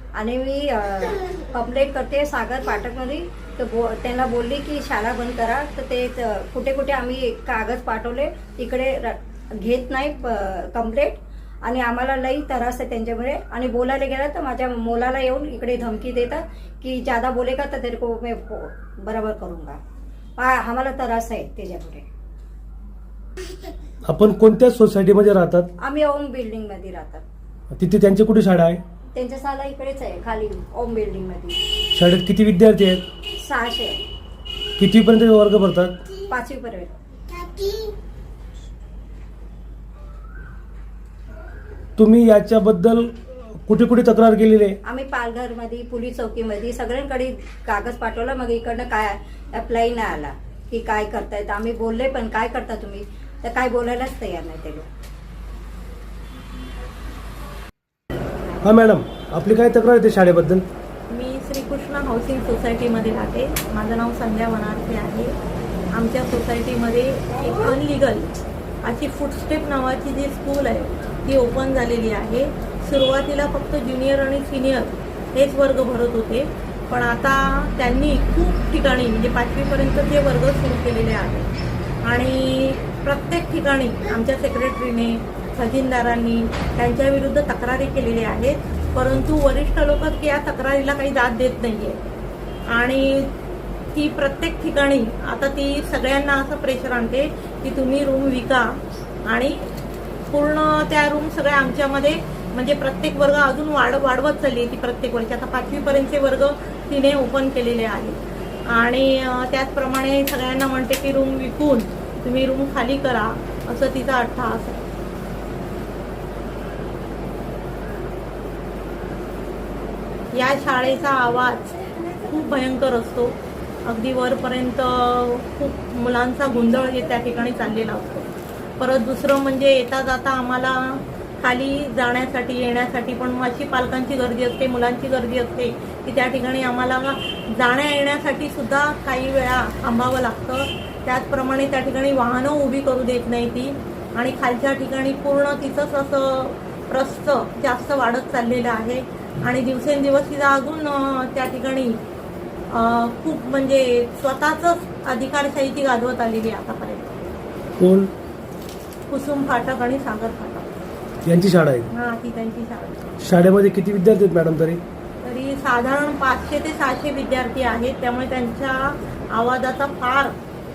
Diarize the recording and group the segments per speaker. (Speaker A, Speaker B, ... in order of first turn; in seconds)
Speaker A: 0.1-19.8, 20.4-22.0, 25.8-27.2, 29.1-31.6, 33.4-34.0, 36.2-36.9, 37.5-37.8, 44.8-54.9
Speaker B: 24.1-25.7, 27.7-28.8, 31.9-33.0, 34.8-35.9, 42.0-44.8, 58.6-60.6, 157.8-158.1, 161.2-161.9, 163.2-164.8
Speaker C: 61.1-65.3, 65.9-68.3, 68.8-81.5, 82.0-92.0, 92.7-93.3, 93.9-99.7, 100.3-114.9, 120.3-152.0, 152.7-157.2, 159.1-160.7, 161.9-163.0, 165.2-170.4